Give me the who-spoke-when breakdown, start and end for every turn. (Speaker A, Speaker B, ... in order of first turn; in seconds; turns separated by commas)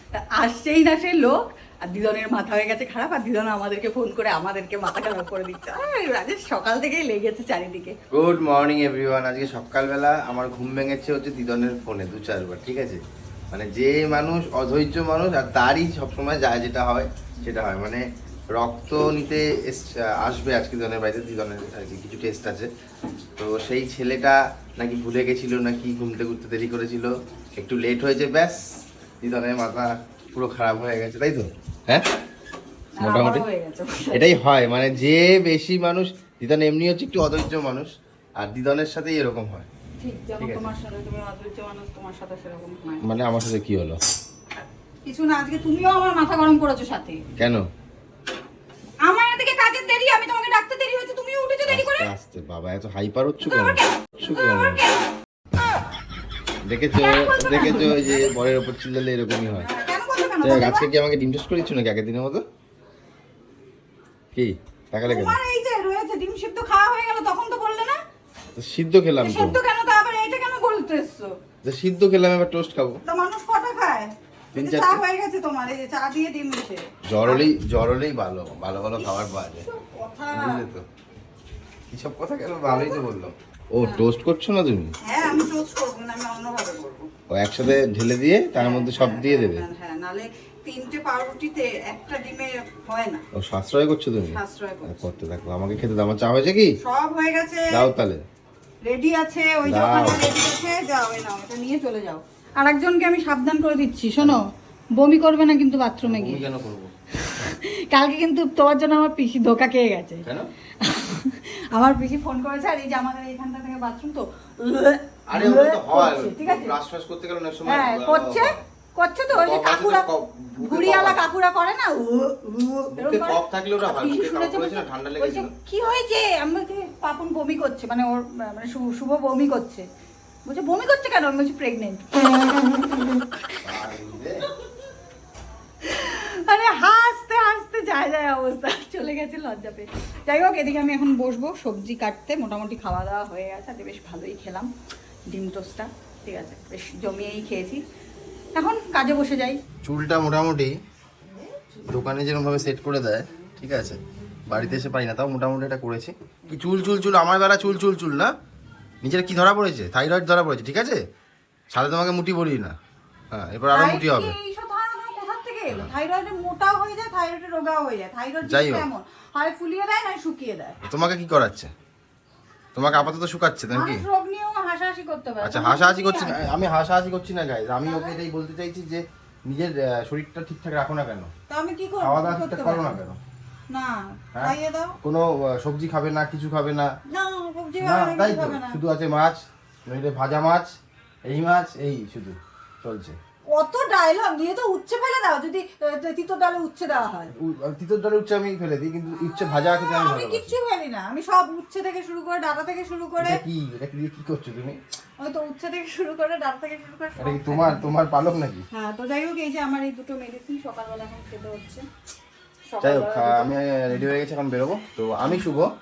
Speaker A: 0.4-8.0, Speaker B: 8.1-13.0, Speaker B: 13.5-18.0, Speaker B: 18.6-22.7, Speaker B: 23.4-32.0, Speaker A: 33.0-34.3, Speaker B: 33.0-33.5, Speaker B: 34.1-39.7, Speaker A: 40.0-43.0, Speaker B: 40.4-40.7, Speaker B: 43.0-44.0, Speaker A: 45.0-47.2, Speaker B: 47.4-47.6, Speaker A: 49.0-52.1, Speaker B: 51.7-54.8, Speaker A: 54.3-54.9, Speaker B: 56.6-59.7, Speaker A: 57.0-58.3, Speaker A: 59.5-60.9, Speaker B: 60.4-62.4, Speaker B: 64.3-65.4, Speaker A: 65.1-68.0, Speaker B: 68.5-69.6, Speaker A: 69.2-71.3, Speaker B: 71.6-73.0, Speaker A: 73.0-77.5, Speaker B: 74.5-75.0, Speaker B: 77.1-79.7, Speaker A: 79.0-80.6, Speaker B: 80.3-80.9, Speaker B: 81.9-84.9, Speaker A: 82.7-83.0, Speaker A: 83.8-84.1, Speaker A: 85.0-87.1, Speaker B: 87.3-89.6, Speaker A: 88.5-93.2, Speaker B: 93.4-96.7, Speaker A: 94.3-95.1, Speaker A: 96.8-97.9, Speaker B: 97.7-98.2, Speaker A: 98.9-106.4, Speaker B: 99.6-100.3, Speaker B: 106.0-106.9, Speaker A: 107.2-110.2, Speaker A: 110.8-116.8, Speaker B: 115.3-118.6, Speaker A: 117.7-120.0, Speaker B: 119.3-121.3, Speaker A: 120.6-129.8, Speaker B: 122.9-125.5, Speaker A: 130.5-133.6, Speaker B: 133.6-134.4, Speaker A: 135.8-144.7, Speaker A: 145.3-147.8, Speaker A: 148.5-149.6, Speaker B: 149.8-150.8, Speaker B: 151.8-158.3, Speaker B: 159.0-161.0, Speaker B: 161.7-162.8, Speaker B: 163.3-164.3, Speaker A: 163.7-170.8, Speaker B: 168.4-168.9, Speaker B: 170.8-171.7, Speaker B: 172.8-174.1, Speaker A: 173.7-176.4, Speaker B: 175.4-181.3, Speaker A: 177.8-178.2, Speaker A: 181.5-183.0, Speaker B: 182.0-183.2, Speaker A: 183.7-184.9, Speaker B: 184.3-186.9, Speaker A: 187.1-188.8, Speaker B: 187.8-190.7, Speaker B: 191.2-193.2, Speaker A: 193.5-197.3, Speaker B: 197.3-200.6, Speaker A: 199.1-203.4, Speaker B: 203.2-204.8, Speaker A: 205.2-207.9, Speaker B: 207.2-208.7, Speaker A: 208.7-211.8, Speaker A: 212.7-213.5, Speaker B: 212.8-215.7